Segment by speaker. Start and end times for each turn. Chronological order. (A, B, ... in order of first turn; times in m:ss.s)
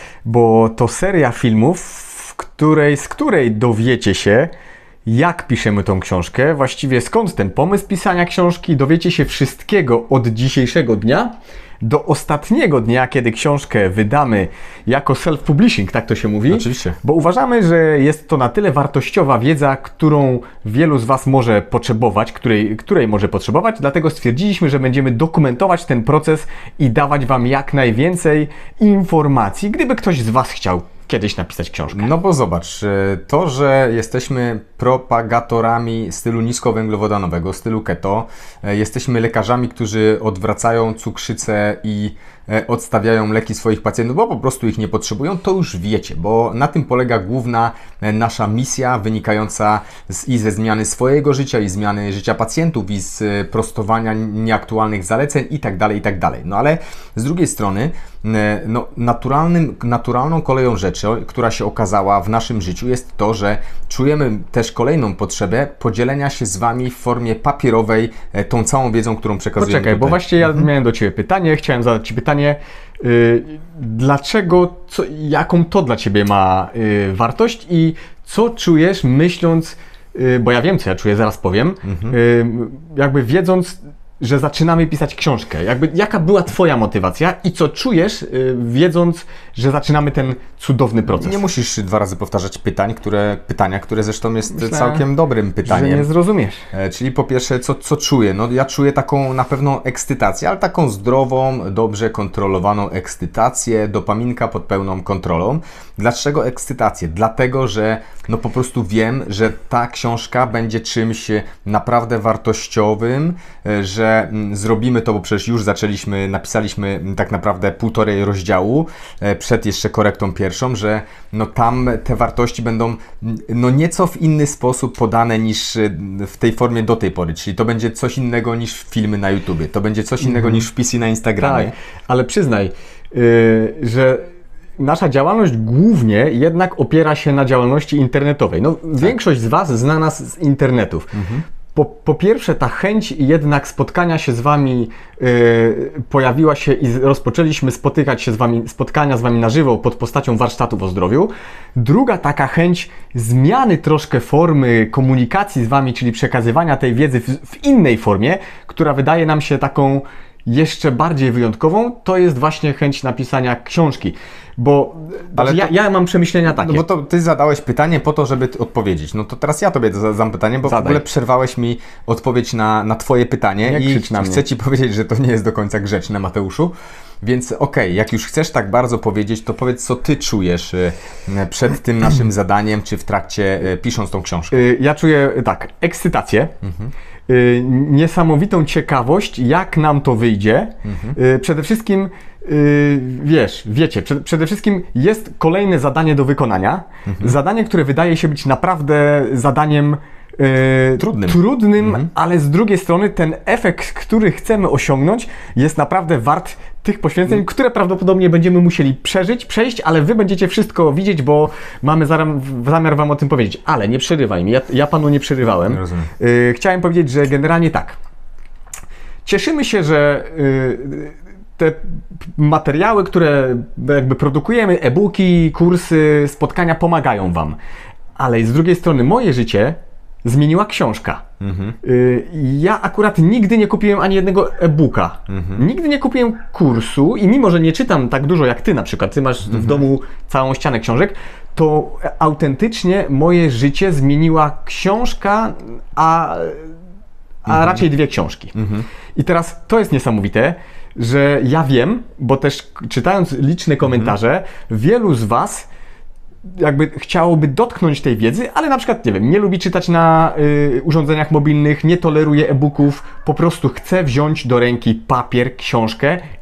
0:00.2-0:04.5 A
0:05.0-0:32.1 A
0:16.5-0:17.0 B
0:31.9-1:10.6 B
1:09.6-1:31.4 A
1:21.8-1:22.2 B
1:31.1-1:36.1 B
1:34.5-1:35.0 A
1:35.6-1:36.6 A
1:36.7-2:11.7 B
2:10.2-2:10.6 A
2:11.4-2:21.1 A
2:21.1-2:21.4 B
2:21.7-2:46.8 A
2:45.4-2:45.7 B
2:46.4-3:04.6 B
2:50.6-2:51.0 A
2:53.6-2:54.4 A
3:04.5-3:06.5 A
3:06.6-3:06.9 B
3:07.3-3:38.0 A
3:10.8-3:11.2 B
3:17.0-3:17.4 B
3:21.0-3:22.1 B
3:35.7-3:36.1 B
3:39.2-3:47.6 A
3:48.2-3:51.2 A
3:51.4-3:51.8 B
3:51.8-4:06.7 A
3:55.3-3:55.6 B
3:59.5-3:59.7 B
4:07.4-4:08.5 A
4:07.5-4:07.8 B
4:08.5-4:08.8 B
4:09.1-4:15.7 A
4:13.8-4:14.1 B
4:16.4-4:26.2 A